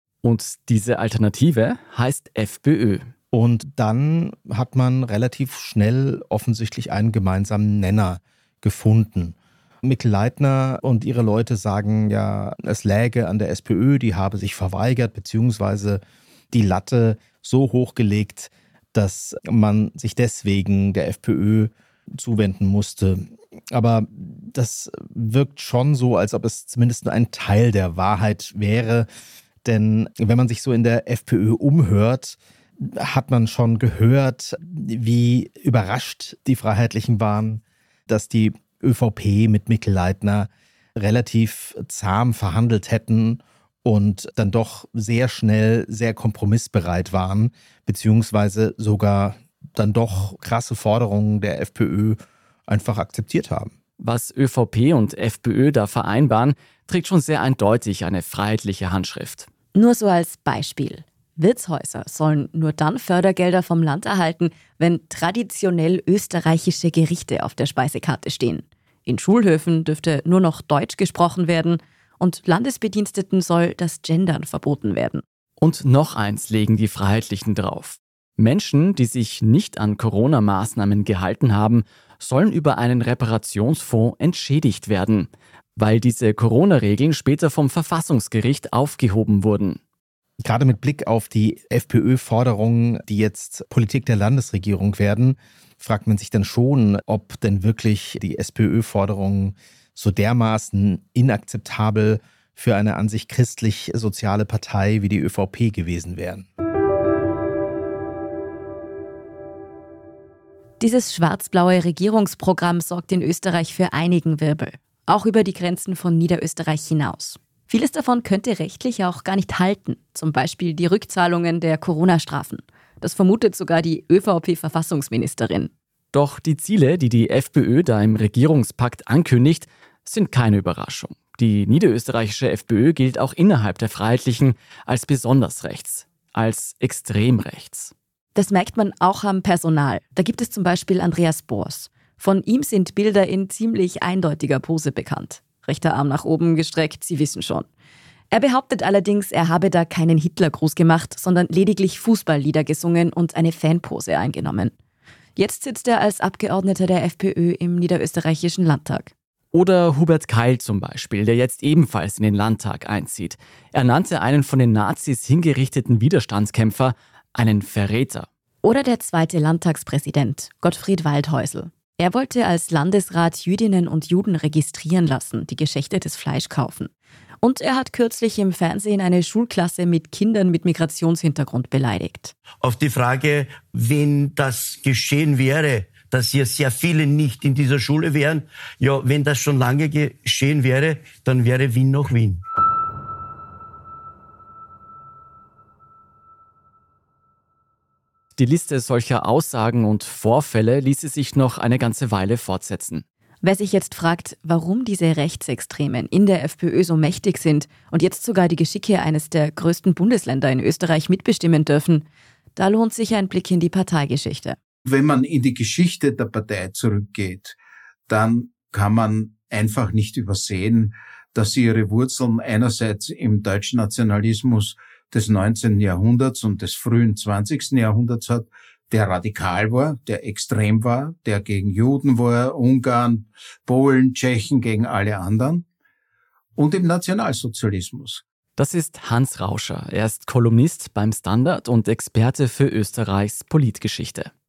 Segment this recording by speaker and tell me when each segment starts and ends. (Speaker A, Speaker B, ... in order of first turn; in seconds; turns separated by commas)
Speaker A: 0.2-3.1, Speaker B: 3.3-29.1, Speaker B: 29.6-53.7, Speaker A: 54.0-59.5, Speaker C: 59.7-75.2, Speaker A: 75.6-89.8, Speaker B: 90.4-106.5, Speaker C: 110.8-125.7, Speaker A: 126.1-137.9, Speaker C: 138.3-147.7, Speaker C: 148.3-154.7, Speaker C: 155.3-159.1, Speaker A: 159.5-168.3, Speaker C: 168.6-176.9, Speaker C: 177.4-182.3, Speaker D: 182.6-192.4, Speaker A: 198.3-203.0, Speaker C: 203.4-214.6, Speaker E: 214.8-217.6, Speaker E: 218.1-235.6, Speaker E: 236.6-238.2, Speaker A: 238.6-244.3